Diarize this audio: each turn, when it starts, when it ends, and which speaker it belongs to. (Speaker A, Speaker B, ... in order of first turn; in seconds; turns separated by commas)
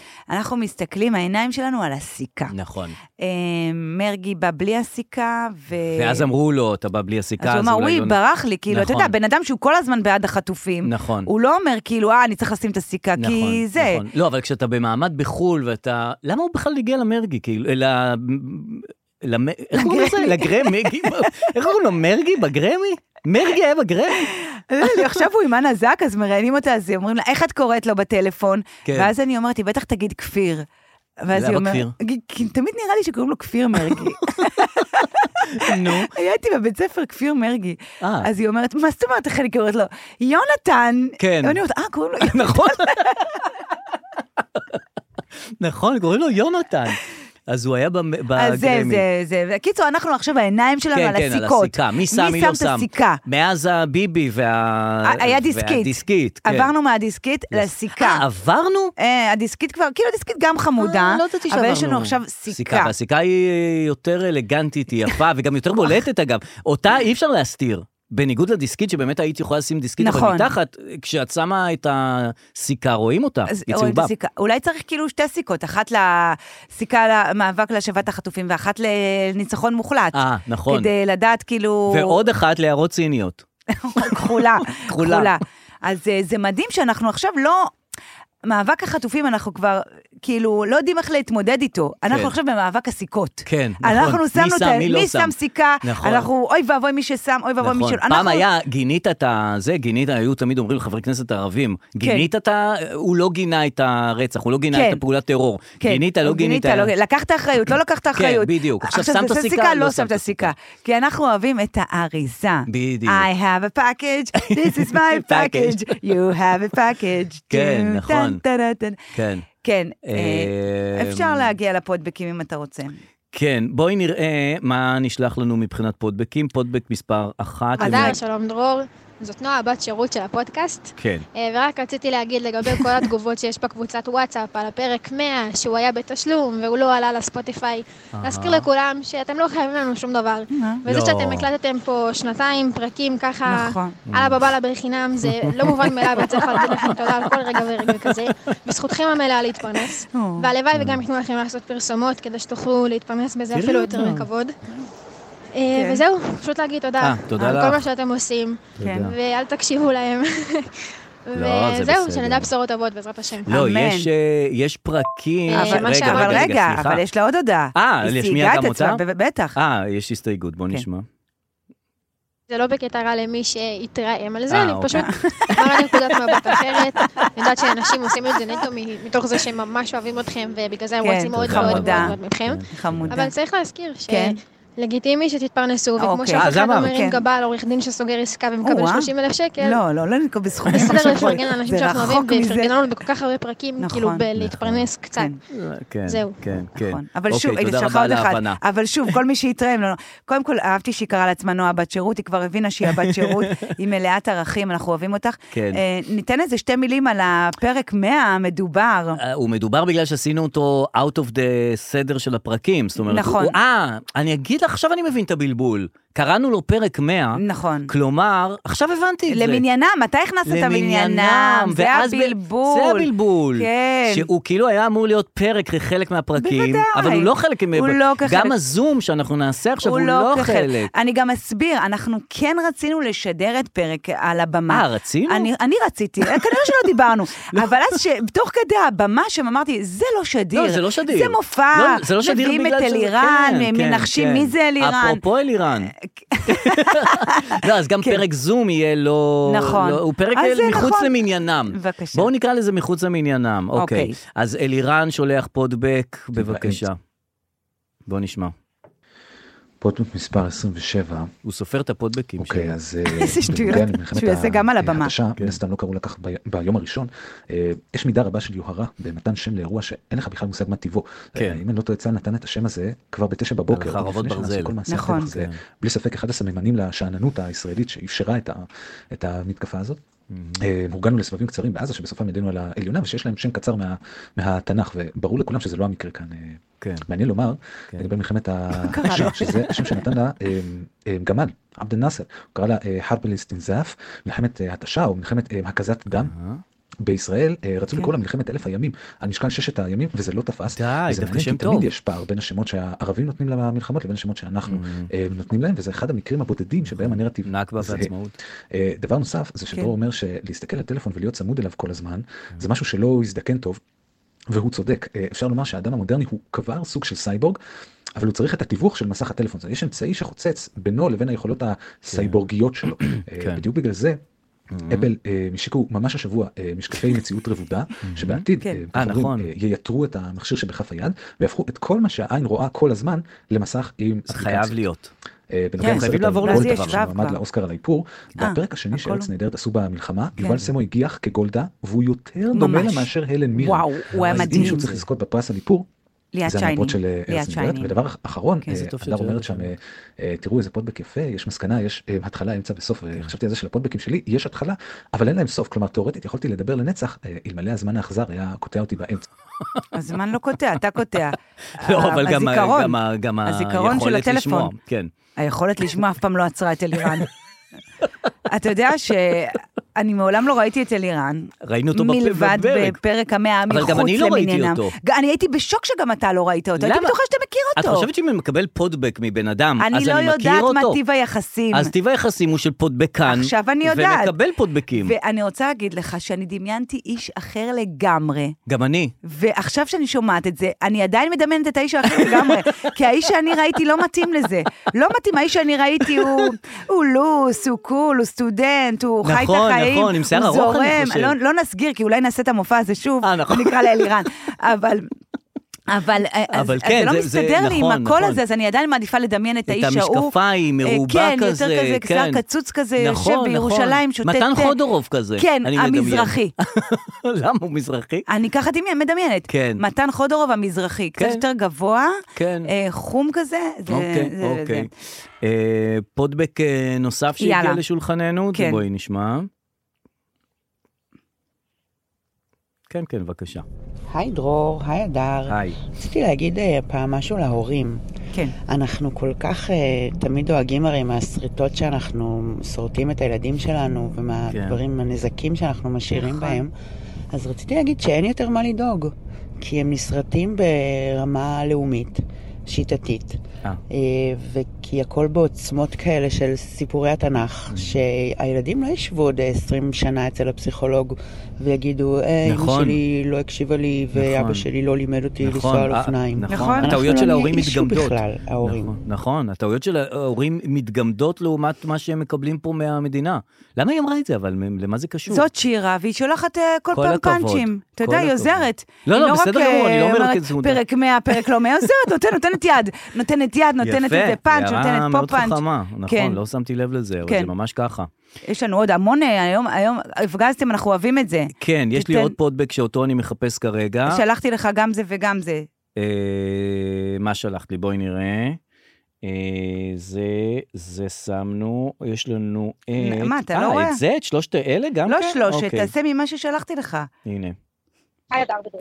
Speaker A: 0.3-2.5, Speaker B: 2.5-3.0, Speaker A: 3.2-6.2, Speaker B: 5.9-8.2, Speaker A: 7.4-14.0, Speaker B: 8.7-9.1, Speaker B: 10.8-11.3, Speaker B: 13.2-24.3, Speaker A: 19.7-21.3, Speaker A: 24.4-30.6, Speaker B: 24.8-25.1, Speaker B: 28.8-29.1, Speaker A: 31.2-43.3, Speaker B: 31.3-31.9, Speaker B: 33.8-34.5, Speaker B: 35.5-36.1, Speaker B: 38.0-38.3, Speaker B: 41.2-41.6, Speaker B: 42.2-43.1, Speaker B: 44.4-44.8, Speaker B: 45.6-49.0, Speaker A: 48.4-53.2, Speaker B: 50.9-56.7, Speaker A: 55.0-58.2, Speaker B: 57.5-58.9, Speaker A: 59.0-62.9, Speaker B: 60.8-74.1, Speaker A: 70.0-70.5, Speaker A: 73.5-82.2, Speaker B: 80.1-80.9, Speaker B: 81.9-83.4, Speaker A: 83.8-87.7, Speaker B: 84.0-85.3, Speaker A: 88.5-98.5, Speaker B: 92.1-92.3, Speaker B: 93.5-96.3, Speaker B: 97.6-106.9, Speaker A: 102.0-102.3, Speaker A: 104.7-105.0, Speaker A: 105.8-119.0, Speaker B: 108.1-110.5, Speaker B: 112.7-113.3, Speaker B: 114.4-116.0, Speaker B: 117.5-118.4, Speaker B: 119.1-119.5, Speaker A: 119.6-123.0, Speaker B: 120.0-121.5, Speaker B: 123.3-128.2, Speaker C: 127.8-154.5, Speaker A: 127.8-128.2, Speaker B: 131.0-131.2, Speaker B: 138.1-138.7, Speaker A: 140.5-140.8, Speaker B: 140.8-141.5, Speaker A: 143.4-144.0, Speaker B: 144.1-144.4, Speaker B: 145.2-148.3, Speaker A: 150.1-150.5, Speaker B: 150.7-151.0, Speaker B: 153.5-154.3, Speaker C: 155.5-163.5, Speaker A: 155.7-156.0, Speaker B: 157.0-157.8, Speaker A: 158.8-159.1, Speaker B: 158.8-159.1, Speaker B: 161.3-162.5, Speaker B: 163.5-167.0, Speaker A: 163.5-164.1, Speaker C: 165.5-166.5, Speaker A: 165.5-169.6, Speaker B: 167.7-169.0, Speaker B: 169.5-171.1, Speaker C: 172.5-189.8, Speaker B: 174.5-175.1, Speaker A: 175.0-177.3, Speaker A: 181.0-182.2, Speaker B: 181.4-183.2, Speaker A: 182.7-183.3, Speaker A: 184.1-184.4, Speaker A: 186.0-187.2, Speaker B: 186.3-187.0, Speaker A: 188.6-192.7, Speaker B: 190.7-191.2, Speaker C: 190.7-195.3, Speaker A: 193.8-194.3, Speaker B: 194.3-194.9, Speaker B: 195.5-198.6, Speaker C: 196.1-196.4, Speaker A: 196.8-209.2, Speaker B: 202.8-203.7, Speaker B: 205.5-205.8, Speaker B: 209.2-219.6, Speaker A: 213.1-213.6, Speaker A: 217.3-217.9, Speaker A: 219.3-224.3, Speaker B: 220.4-230.9, Speaker A: 226.4-228.5, Speaker A: 229.8-245.2, Speaker B: 234.7-235.5, Speaker B: 236.2-236.8, Speaker B: 237.5-238.0, Speaker B: 240.5-245.9, Speaker A: 246.3-248.2, Speaker B: 246.5-257.0, Speaker A: 249.4-251.2, Speaker A: 251.7-252.3, Speaker A: 253.8-254.2, Speaker D: 256.4-256.8, Speaker B: 258.1-258.5, Speaker D: 259.8-261.3, Speaker B: 261.4-262.8, Speaker D: 262.4-280.0, Speaker A: 263.1-265.1, Speaker B: 271.3-271.6, Speaker B: 273.7-275.6, Speaker A: 274.9-275.3, Speaker B: 280.3-280.7, Speaker D: 280.6-296.3, Speaker B: 286.8-287.1, Speaker B: 288.7-290.0, Speaker A: 288.9-289.6, Speaker B: 296.1-296.6, Speaker D: 297.0-308.1, Speaker B: 300.7-301.9, Speaker B: 304.7-305.1, Speaker B: 306.9-308.4, Speaker D: 308.7-313.8, Speaker D: 314.5-317.6, Speaker D: 318.2-324.2, Speaker B: 322.1-323.6, Speaker B: 324.7-325.1, Speaker D: 324.9-334.8, Speaker B: 328.0-329.5, Speaker B: 334.3-335.1, Speaker D: 335.5-345.9, Speaker B: 335.8-337.0, Speaker A: 335.8-337.4, Speaker A: 338.4-339.3, Speaker A: 340.4-340.6, Speaker A: 342.5-344.9, Speaker B: 344.1-345.1, Speaker A: 346.3-347.9, Speaker D: 346.4-359.3, Speaker B: 348.6-349.7, Speaker A: 359.9-364.7, Speaker B: 361.8-365.1, Speaker A: 365.4-367.3, Speaker A: 368.5-378.1, Speaker B: 371.6-373.0, Speaker B: 373.7-374.9, Speaker B: 376.8-377.1, Speaker B: 377.8-381.0, Speaker A: 379.8-381.9, Speaker B: 381.7-385.1, Speaker A: 383.2-384.3, Speaker A: 384.9-388.5, Speaker B: 388.7-389.1, Speaker A: 389.2-405.1, Speaker B: 392.1-392.9, Speaker B: 396.0-396.4, Speaker B: 399.2-401.3, Speaker B: 403.2-404.1, Speaker A: 405.9-410.3, Speaker B: 406.5-408.4, Speaker B: 409.7-412.4, Speaker A: 410.8-414.7, Speaker B: 413.0-418.2, Speaker A: 415.4-416.5, Speaker A: 418.3-424.9, Speaker B: 419.5-419.8, Speaker B: 421.2-421.4, Speaker B: 422.3-422.7, Speaker B: 423.9-429.5, Speaker A: 427.4-427.8, Speaker A: 428.5-428.8, Speaker B: 432.9-433.6, Speaker E: 434.1-438.0, Speaker B: 435.5-435.8, Speaker E: 438.7-446.7, Speaker B: 444.5-444.8, Speaker A: 446.1-446.6, Speaker E: 447.3-453.4, Speaker E: 453.9-469.0, Speaker B: 457.7-457.9, Speaker B: 462.4-463.0, Speaker B: 464.2-464.6, Speaker B: 465.4-475.5, Speaker A: 466.5-467.1, Speaker A: 475.3-486.4, Speaker B: 476.9-480.8, Speaker B: 483.8-488.1, Speaker A: 487.2-487.5, Speaker A: 488.4-492.4, Speaker B: 491.5-494.2, Speaker A: 494.1-495.7, Speaker B: 495.9-498.6, Speaker B: 499.2-505.9, Speaker A: 502.9-504.0, Speaker A: 505.1-507.1, Speaker B: 507.2-507.6